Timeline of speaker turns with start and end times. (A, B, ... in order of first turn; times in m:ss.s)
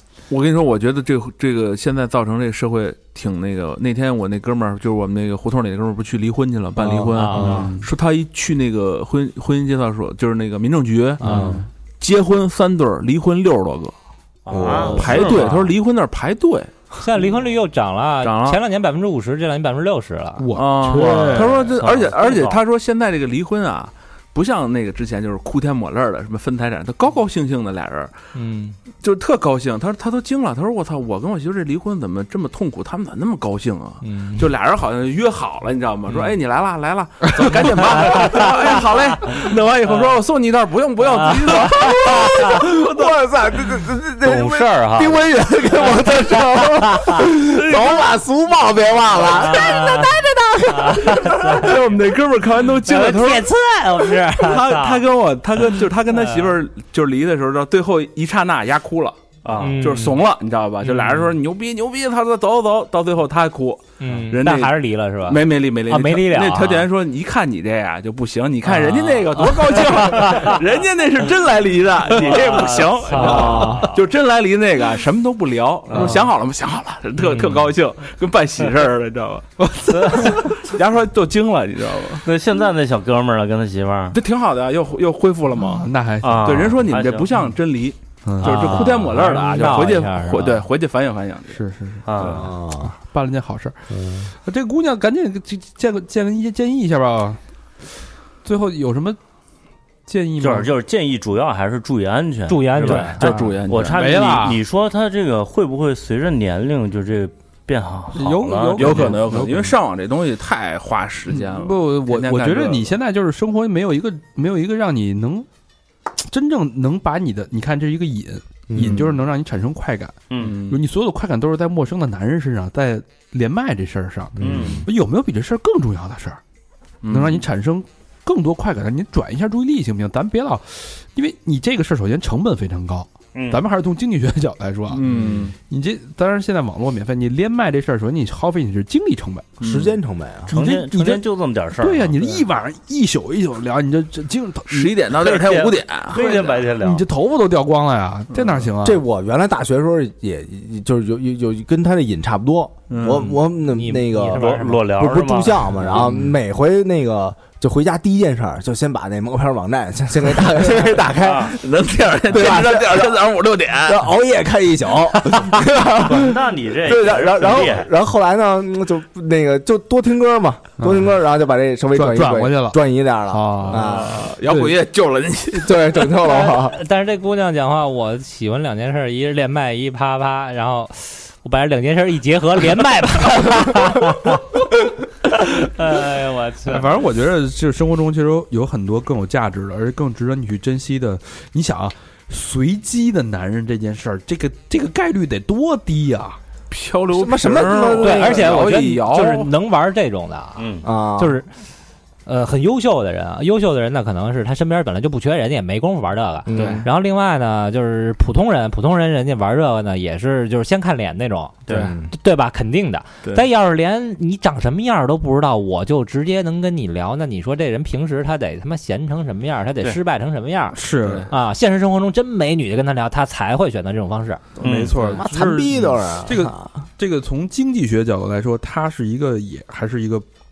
0:00.3-0:13.9 A
0:07.1-0:07.7 B
0:07.2-0:07.7 C
0:07.3-0:07.9 D
0:11.2-0:11.6 C
0:11.2-0:11.6 B
0:11.2-0:11.6 D
0:14.4-0:15.5 E
0:14.5-0:15.2 C
0:14.8-0:16.7 A
0:14.9-0:15.7 B
0:17.0-0:21.4 B
0:18.2-0:18.6 A
0:20.4-0:21.6 D
0:20.5-0:28.2 A
0:21.3-0:22.6 E
0:28.3-0:28.8 B
0:29.0-0:43.2 A
0:34.0-0:34.5 B
0:38.0-0:38.5 B
0:41.2-0:42.6 B
0:41.6-0:51.7 C
0:44.2-0:45.2 E
0:44.6-0:45.0 B
0:47.3-0:48.1 A
0:49.2-0:51.8 B
0:51.5-0:53.5 A
0:52.8-0:55.0 B
0:54.2-1:19.4 A
0:56.1-0:56.5 B
0:59.4-0:59.8 E
0:59.6-1:00.2 B
1:00.8-1:01.3 B
1:04.0-1:06.9 B
1:08.7-1:10.6 B
1:12.1-1:14.0 B
1:15.9-1:16.2 E
1:19.7-1:20.1 D
1:20.0-1:22.3 A
1:22.2-1:24.2 E
1:24.1-1:31.6 A
1:25.7-1:26.8 D
1:26.2-1:27.3 E
1:28.2-1:28.8 D
1:28.4-1:30.6 B
1:31.5-1:37.4 D
1:32.0-1:32.5 E
1:32.2-1:32.9 C
1:33.9-1:34.3 C
1:38.4-1:39.2 D
1:40.0-1:40.7 D
1:40.4-1:49.2 E
1:42.5-1:43.2 B
1:42.9-1:44.6 D
1:43.0-1:44.1 A
1:48.1-1:49.7 D
1:48.7-1:52.9 A
1:51.3-1:55.5 D
1:56.2-2:06.4 D
1:58.7-1:59.0 C
1:58.8-1:59.1 A
2:00.3-2:00.5 E
2:00.4-2:00.8 A
2:04.4-2:04.8 C
2:04.4-2:04.8 E
2:07.0-2:07.4 A
2:07.1-2:15.1 D
2:13.3-2:13.6 E
2:14.9-2:15.6 A
2:15.6-2:19.6 D
2:19.6-2:20.0 A
2:19.6-2:20.5 C
2:20.5-2:21.2 D
2:20.5-2:22.4 E
2:21.8-2:25.0 D
2:24.7-2:26.6 A
2:25.2-2:27.1 E
2:26.7-2:29.0 D
2:28.3-2:28.6 A
2:28.8-2:41.6 C
2:32.9-2:33.4 A
2:33.5-2:34.9 B
2:34.4-2:35.7 E
2:41.2-2:41.5 E
2:41.4-2:44.1 A
2:42.3-2:43.2 C
2:43.8-2:54.2 C
2:45.6-2:47.9 E
2:50.8-2:51.1 D
2:51.9-2:54.8 D
2:53.7-2:55.9 A
2:55.5-2:56.8 C
2:56.2-3:04.6 B
3:05.2-3:06.9 B
3:06.6-3:16.4 D
3:16.7-3:19.5 A
3:17.1-3:18.7 C
3:18.0-3:21.5 B
3:20.6-3:20.9 E
3:20.8-3:21.4 C
3:22.2-3:44.4 B
3:26.5-3:26.9 C
3:26.5-3:26.8 A
3:31.7-3:31.9 A
3:31.7-3:32.0 C
3:40.7-3:41.3 D
3:41.0-3:41.3 A
3:44.6-3:50.2 D
3:44.6-3:45.0 A
3:45.0-3:46.8 C